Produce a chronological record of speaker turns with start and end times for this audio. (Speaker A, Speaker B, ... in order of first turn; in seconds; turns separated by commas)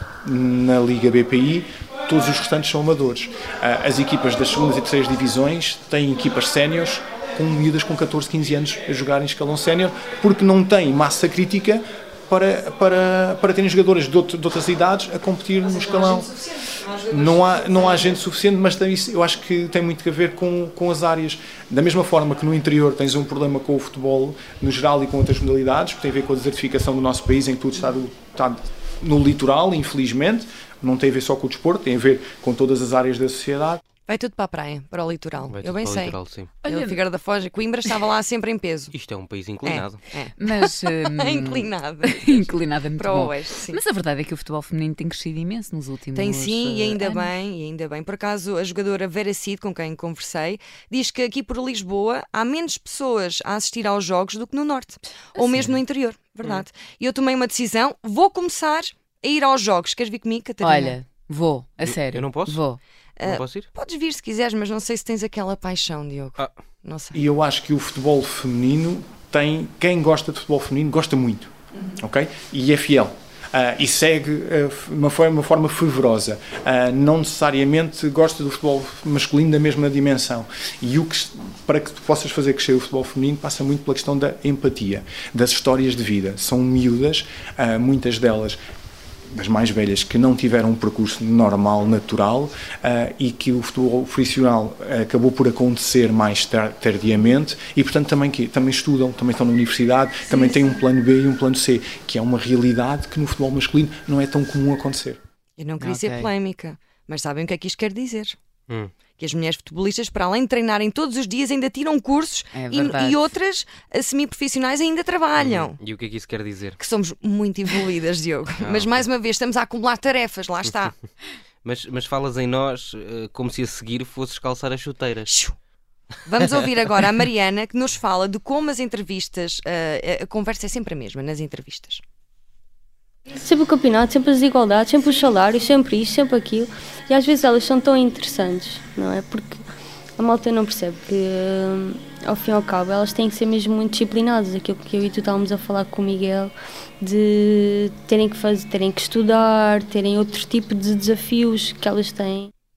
Speaker A: 0.2-16.3, Speaker B: 15.6-18.1, Speaker A: 17.0-33.8, Speaker B: 34.1-38.9, Speaker C: 35.5-36.5, Speaker D: 36.6-37.0, Speaker C: 38.9-40.0, Speaker B: 39.6-43.8, Speaker D: 40.4-47.3, Speaker B: 46.1-61.0, Speaker D: 55.4-55.7, Speaker D: 60.6-62.8, Speaker C: 61.8-62.6, Speaker B: 63.2-67.2, Speaker C: 63.2-63.7, Speaker A: 67.1-88.6, Speaker A: 89.3-105.2, Speaker B: 100.3-100.6, Speaker B: 105.6-108.4, Speaker D: 105.8-106.3, Speaker C: 108.7-108.9, Speaker B: 109.1-115.8, Speaker D: 112.5-113.2, Speaker C: 115.4-116.8, Speaker B: 116.8-120.9, Speaker C: 118.6-119.1, Speaker C: 121.6-125.3, Speaker B: 125.3-125.5, Speaker B: 126.2-132.0, Speaker E: 133.3-139.6, Speaker E: 140.2-152.5